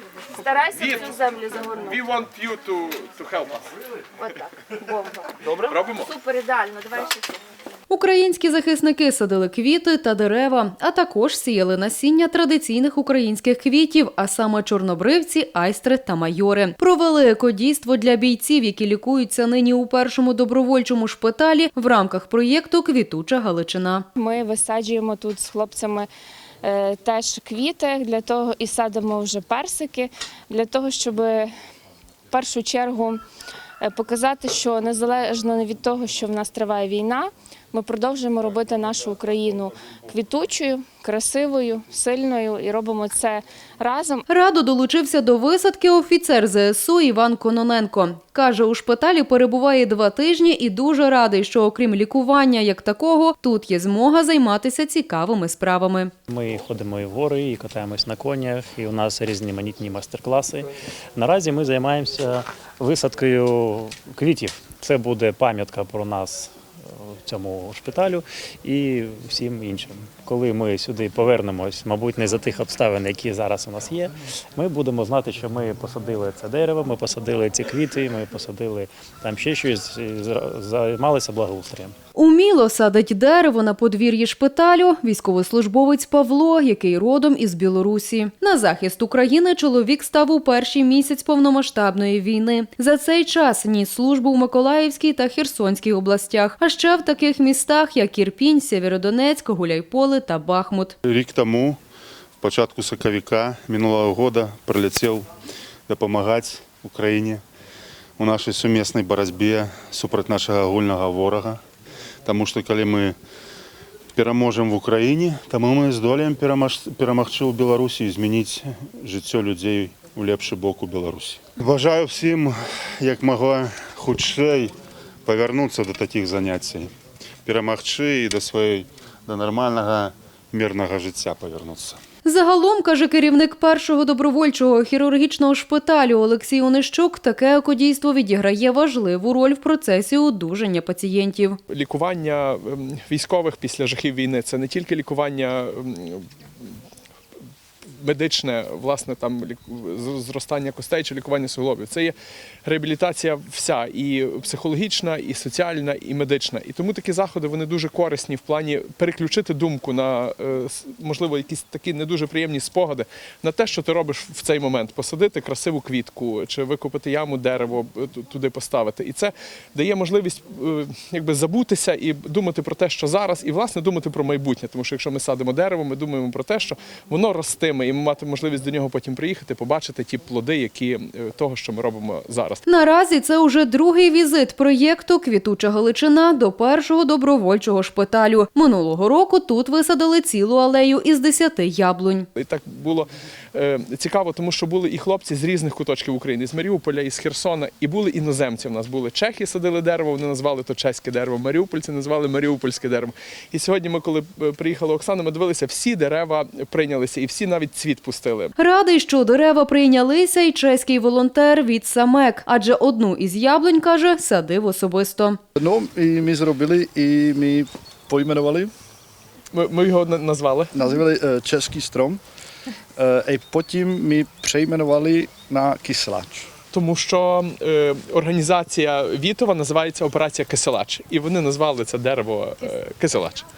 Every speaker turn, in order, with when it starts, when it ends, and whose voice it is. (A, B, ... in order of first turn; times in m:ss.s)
0:00.4-0:01.8 A
0:00.6-0:01.2 B
0:00.7-0:01.2 C
0:01.8-0:03.6 C
0:04.2-0:05.4 B
0:05.5-0:06.1 C
0:06.1-0:07.3 B
0:07.9-0:24.0 D
0:24.2-0:24.8 B
0:24.3-0:26.1 A
0:25.6-0:26.1 B
0:26.6-0:31.5 A
0:29.8-0:31.4 B
0:32.3-0:33.1 A
0:33.8-0:39.6 A
0:35.6-0:36.0 B
0:37.1-0:39.7 B
0:40.1-0:44.2 A
0:40.5-0:42.2 B
0:43.0-0:44.2 B
0:44.3-0:56.1 D
0:56.3-1:22.0 E
1:22.2-1:41.0 D
1:41.0-1:41.8 F
1:42.4-1:45.3 F
1:45.9-1:47.4 F
1:48.2-1:51.6 F
1:52.2-1:53.2 F
1:54.2-2:04.7 F
2:05.3-2:06.9 F
2:07.4-2:12.0 F
2:12.2-2:21.6 D
2:21.7-2:26.3 C
2:28.0-3:02.6 C
3:02.7-3:12.3 D
3:12.4-3:28.5 C
3:28.6-3:35.4 D
3:35.6-3:38.7 G
3:39.5-3:40.7 C
3:40.8-3:42.2 G
3:43.0-3:46.5 G
3:46.7-3:53.5 C